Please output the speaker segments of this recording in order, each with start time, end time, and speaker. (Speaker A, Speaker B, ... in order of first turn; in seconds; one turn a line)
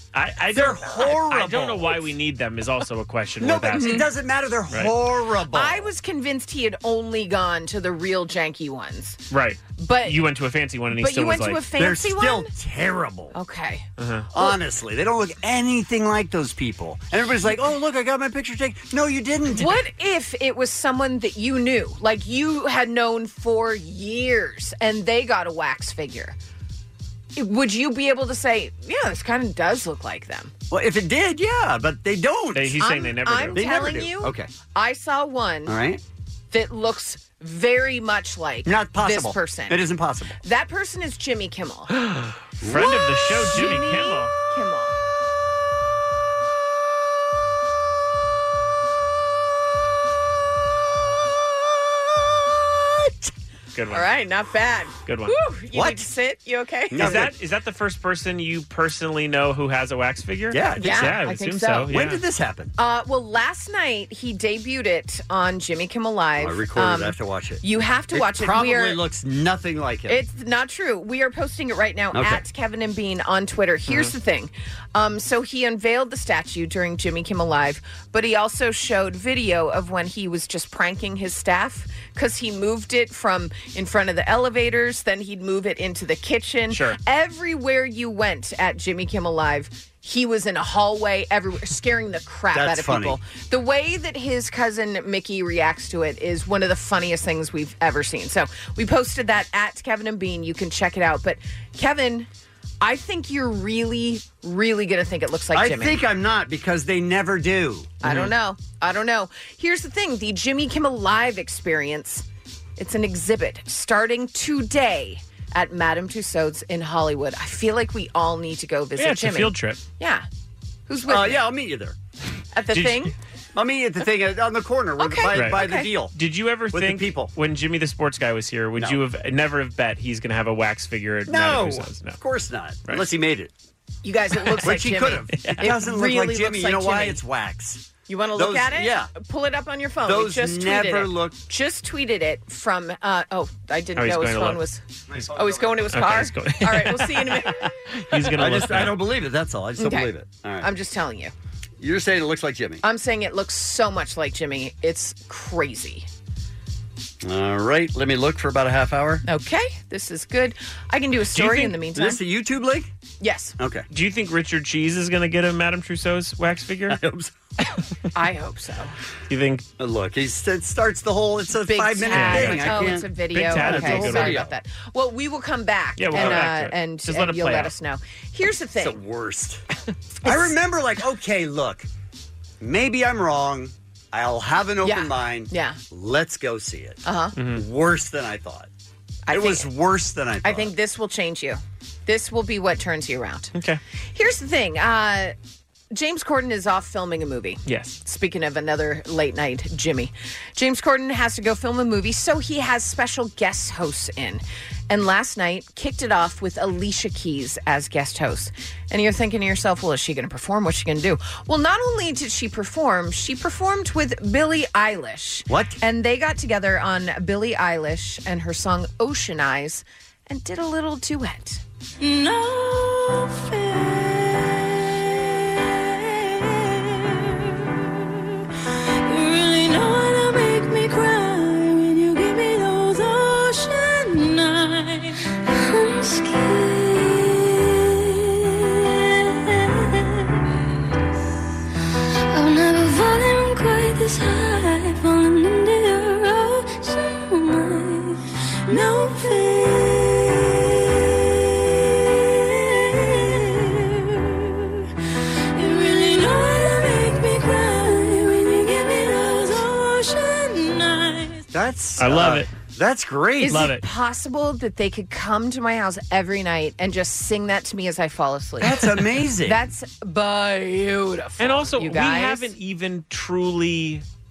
Speaker A: 0.1-4.1
Speaker B: 0.5-2.0
Speaker B: 3.4-5.9
Speaker C: 3.8-4.0
Speaker C: 5.5-9.2
Speaker A: 9.3-11.6
Speaker C: 9.8-10.2
Speaker C: 11.0-12.5
Speaker B: 11.8-13.3
Speaker C: 13.3-13.9
Speaker A: 14.0-14.3
Speaker B: 14.3-19.8
Speaker C: 19.5-26.4
Speaker C: 27.4-30.5
Speaker B: 30.7-32.9
Speaker A: 32.5-33.6
Speaker C: 32.8-35.8
Speaker B: 33.5-34.5
Speaker B: 35.7-36.0
Speaker C: 36.5-39.9
Speaker B: 38.6-40.4
Speaker C: 40.4-42.0
Speaker A: 41.9-44.3
Speaker B: 42.6-42.9
Speaker C: 42.8-45.0
Speaker A: 53.7-54.1
Speaker C: 53.9-57.2
Speaker A: 55.0-55.4
Speaker B: 55.7-56.0
Speaker B: 56.9-57.3
Speaker A: 57.0-62.2
Speaker B: 60.5-61.2
Speaker C: 60.8-61.9
Speaker B: 61.9-62.7
Speaker C: 62.8-69.0
Speaker B: 66.4-70.2
Speaker C: 70.1-102.3
Speaker B: 72.1-72.4
Speaker A: 73.9-74.1
Speaker A: 86.7-87.0
Speaker B: 92.5-93.2
Speaker C: 102.8-106.0
Speaker B: 105.5-108.0
Speaker C: 108.0-112.2
Speaker A: 108.0-108.3
Speaker C: 112.8-120.3
Speaker A: 119.0-119.8
Speaker C: 120.9-121.5
Speaker B: 121.1-122.0
Speaker C: 122.5-123.1
Speaker A: 122.7-123.1
Speaker B: 123.5-126.1
Speaker C: 125.0-125.9
Speaker A: 125.3-132.2
Speaker B: 126.7-127.3
Speaker B: 131.3-133.5
Speaker C: 134.0-137.2
Speaker B: 134.6-139.1
Speaker A: 135.4-135.7
Speaker C: 138.1-144.8
Speaker B: 140.1-141.4
Speaker A: 144.0-144.6
Speaker B: 145.1-145.9
Speaker C: 145.3-147.7
Speaker A: 145.9-149.0
Speaker B: 148.3-150.7
Speaker C: 149.8-151.3
Speaker B: 151.8-152.8
Speaker C: 152.8-156.1
Speaker B: 157.2-159.2
Speaker C: 159.2-162.2
Speaker A: 161.3-161.8
Speaker B: 161.9-162.9
Speaker C: 163.2-163.6
Speaker B: 163.6-163.9
Speaker A: 163.9-167.0
Speaker B: 166.9-167.3
Speaker C: 168.2-168.9
Speaker A: 169.3-169.7
Speaker B: 169.8-174.5
Speaker C: 171.7-179.0
Speaker A: 172.1-174.5
Speaker A: 176.0-177.7
Speaker B: 176.1-176.5
Speaker B: 178.8-179.6
Speaker C: 180.2-180.6
Speaker B: 180.2-181.9
Speaker B: 182.6-187.0
Speaker C: 184.8-185.8
Speaker C: 187.1-187.4
Speaker A: 187.4-187.6
Speaker B: 187.5-188.7
Speaker C: 189.3-189.7
Speaker B: 189.3-190.7
Speaker C: 190.4-193.5
Speaker A: 193.6-193.8
Speaker C: 194.1-195.3
Speaker C: 195.9-221.6
Speaker A: 197.7-198.0
Speaker B: 215.5-215.8
Speaker D: 222.0-227.7
Speaker D: 229.1-238.8
Speaker D: 239.5-240.3
Speaker D: 242.3-254.8
Speaker D: 255.6-261.4
Speaker B: 261.5-263.7
Speaker A: 262.0-262.5
Speaker C: 263.4-272.5
Speaker A: 263.5-263.8
Speaker B: 268.6-269.7
Speaker A: 271.4-274.0